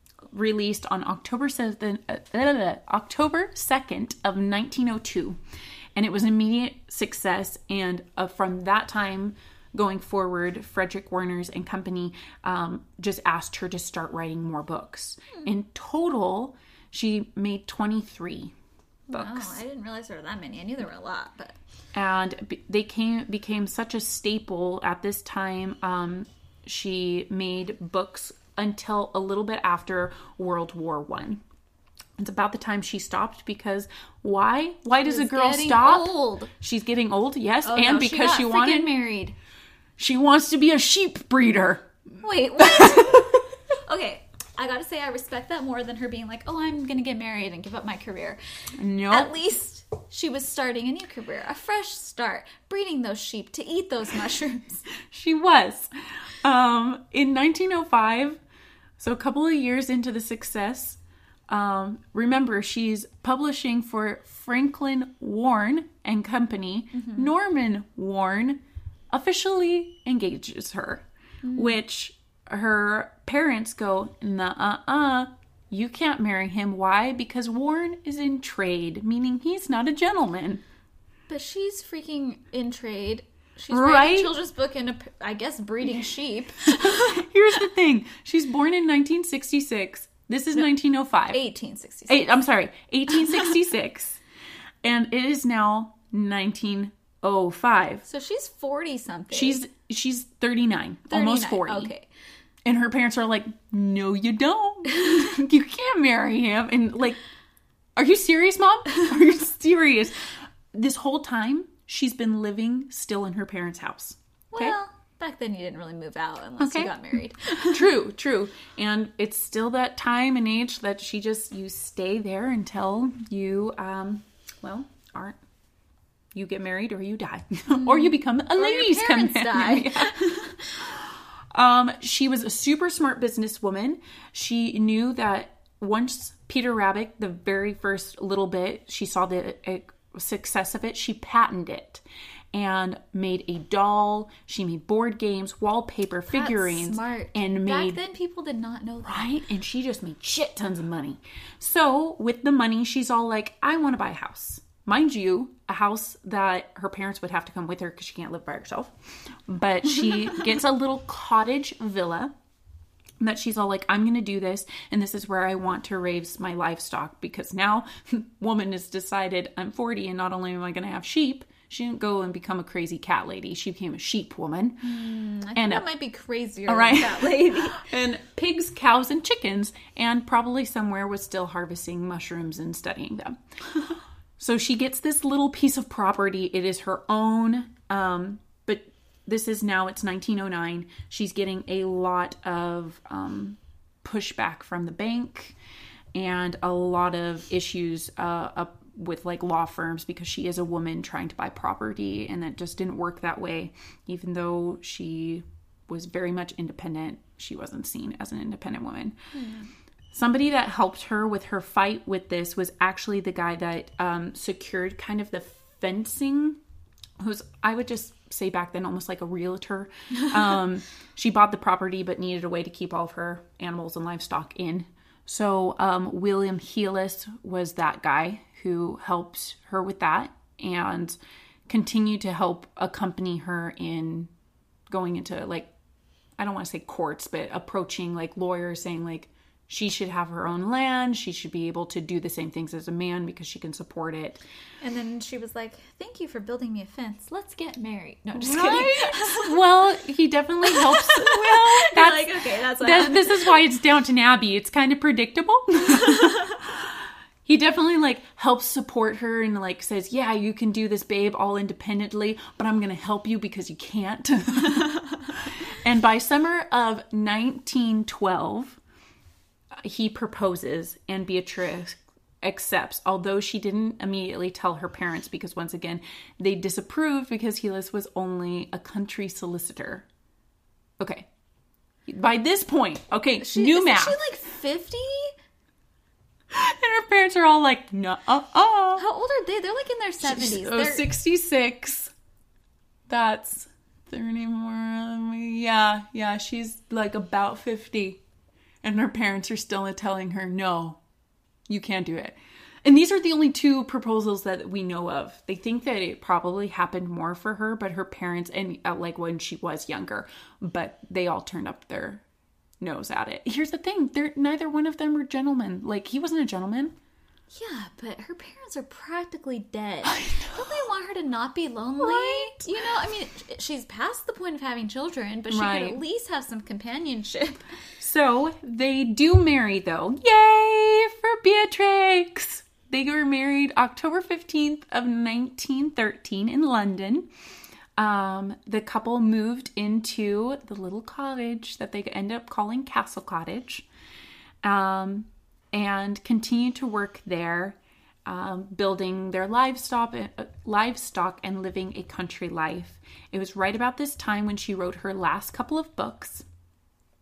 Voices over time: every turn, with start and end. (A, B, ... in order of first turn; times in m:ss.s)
0:00.3-0:05.4 A
0:05.9-0:18.5 A
0:19.1-0:21.6 B
0:19.1-0:19.6 A
0:21.9-0:31.4 A
0:32.2-0:39.0 A
0:35.0-0:36.5 B
0:37.6-0:39.3 B
0:40.0-0:43.4 A
0:42.2-0:54.9 B
0:48.8-0:49.3 A
0:55.0-0:58.4 A
0:59.0-1:20.6 A
1:07.0-1:07.3 B
1:11.4-1:11.8 B
1:21.3-1:27.3 B
1:23.7-1:24.3 A
1:26.7-1:31.4 A
1:31.3-1:32.4 B
1:32.1-1:34.2 A
1:34.8-1:38.0 A
1:38.0-1:39.6 B
1:39.3-1:41.9 A
1:41.1-1:42.1 B
1:42.6-1:47.2 A
1:48.0-1:54.7 A
1:54.5-1:57.8 B
1:56.6-1:56.9 A
1:57.6-2:05.4 A
2:06.3-2:10.1 A
2:07.7-2:10.9 B
2:10.8-2:28.0 A
2:26.3-2:29.3 B
2:29.0-2:42.3 A
2:43.2-2:54.9 A
2:54.8-2:57.9 B
2:55.5-2:55.8 A
2:56.7-3:15.6 A
3:16.1-3:29.2 A
3:29.3-3:29.7 B
3:30.1-3:36.6 A
3:37.2-3:51.2 A
3:51.7-3:54.3 A
3:54.9-3:55.7 A
3:56.4-4:04.4 A
4:04.8-4:09.6 B
4:08.4-4:28.8 A
4:10.6-4:13.6 B
4:15.9-4:16.5 B
4:29.7-4:40.0 A
4:41.0-4:41.3 A
4:42.1-4:44.3 A
4:43.4-4:45.3 B
4:46.5-4:49.0 A
4:49.0-4:51.1 B
4:50.2-4:52.1 A
4:53.1-4:58.2 A
4:58.8-5:01.0 A
5:01.7-5:12.2 A
5:12.8-5:16.9 A
5:17.5-5:27.7 B
5:20.0-5:20.9 A
5:22.0-5:22.7 A
5:25.5-5:26.0 A
5:28.0-5:37.3 A
5:38.0-5:43.8 A
5:44.6-5:56.4 A